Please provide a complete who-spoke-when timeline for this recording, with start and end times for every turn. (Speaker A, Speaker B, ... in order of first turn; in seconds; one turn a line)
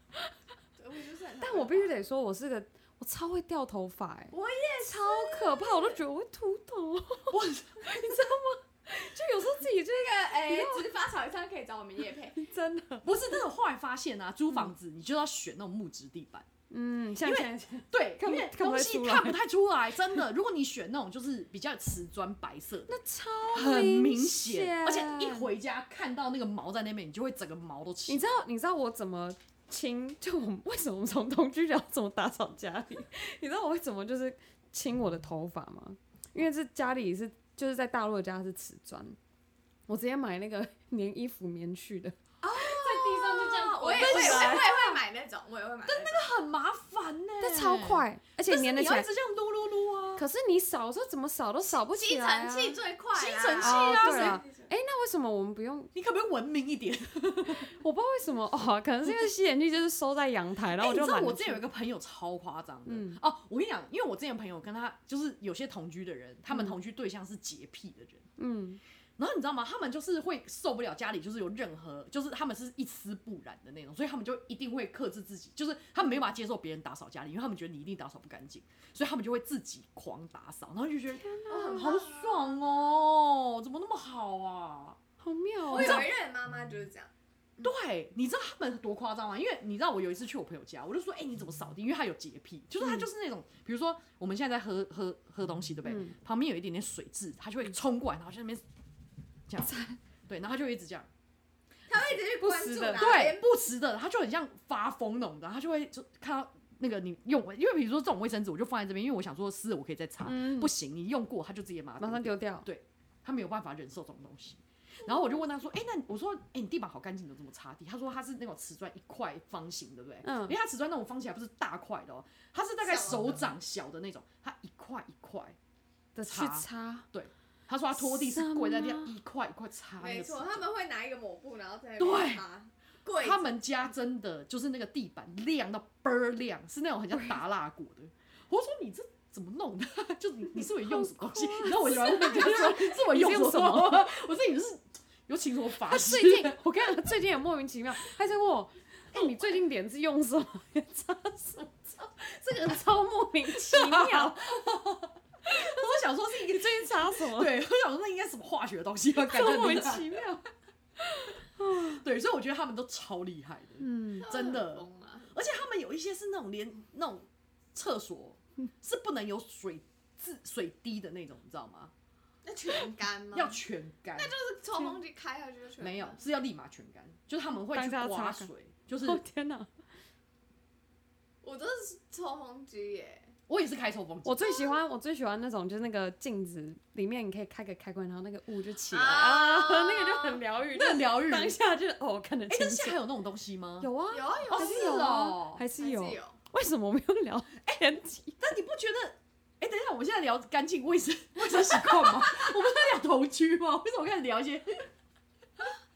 Speaker A: 0.8-2.0
Speaker B: 1.4-10.9
Speaker A: 4.3-6.0
Speaker C: 7.3-8.2
Speaker A: 10.0-12.4
Speaker B: 12.4-13.2
Speaker C: 13.0-16.5
Speaker B: 16.7-19.4
Speaker C: 17.2-22.9
Speaker B: 22.9-25.5
Speaker C: 23.5-28.3
Speaker B: 28.1-39.2
Speaker B: 39.9-44.7
Speaker A: 42.4-46.2
Speaker C: 43.8-45.0
Speaker C: 45.9-50.2
Speaker B: 47.4-49.1
Speaker B: 50.2-52.8
Speaker A: 51.7-54.7
Speaker C: 53.1-54.4
Speaker B: 53.6-55.9
Speaker C: 55.9-57.7
Speaker B: 57.6-61.6
Speaker C: 60.8-68.2
Speaker B: 62.9-63.2
Speaker B: 68.4-68.8
Speaker C: 69.2-85.0
Speaker B: 81.1-82.0
Speaker A: 81.5-82.6
Speaker B: 85.2-86.1
Speaker C: 85.7-86.1
Speaker A: 85.7-87.1
Speaker C: 87.6-98.6
Speaker B: 95.9-96.2
Speaker C: 99.5-101.1
Speaker B: 99.7-100.0
Speaker A: 101.9-103.5
Speaker B: 102.4-103.1
Speaker C: 103.0-125.6
Speaker B: 110.2-110.7
Speaker B: 112.0-112.7
Speaker B: 120.2-120.6
Speaker A: 122.8-123.5
Speaker B: 126.2-127.1
Speaker C: 126.3-130.7
Speaker B: 128.0-129.1
Speaker A: 130.0-133.5
Speaker C: 132.0-132.4
Speaker C: 133.2-146.9
Speaker B: 140.6-144.1
Speaker B: 145.9-154.5
Speaker C: 149.2-149.5
Speaker C: 153.5-160.2
Speaker B: 155.5-157.6
Speaker B: 159.2-160.4
Speaker B: 161.0-162.0
Speaker C: 161.8-171.9
Speaker B: 163.8-164.3
Speaker A: 164.2-165.3
Speaker A: 172.4-173.6
Speaker C: 173.3-174.3
Speaker A: 174.2-176.2
Speaker C: 175.8-179.2
Speaker B: 177.7-179.7
Speaker A: 181.4-183.3
Speaker C: 183.5-184.4
Speaker B: 184.2-193.0
Speaker A: 184.4-184.8
Speaker A: 188.9-190.4
Speaker C: 190.7-191.6
Speaker C: 192.5-193.9
Speaker B: 193.8-198.4
Speaker A: 194.1-195.1
Speaker C: 194.5-195.6
Speaker A: 195.8-196.4
Speaker C: 198.4-204.9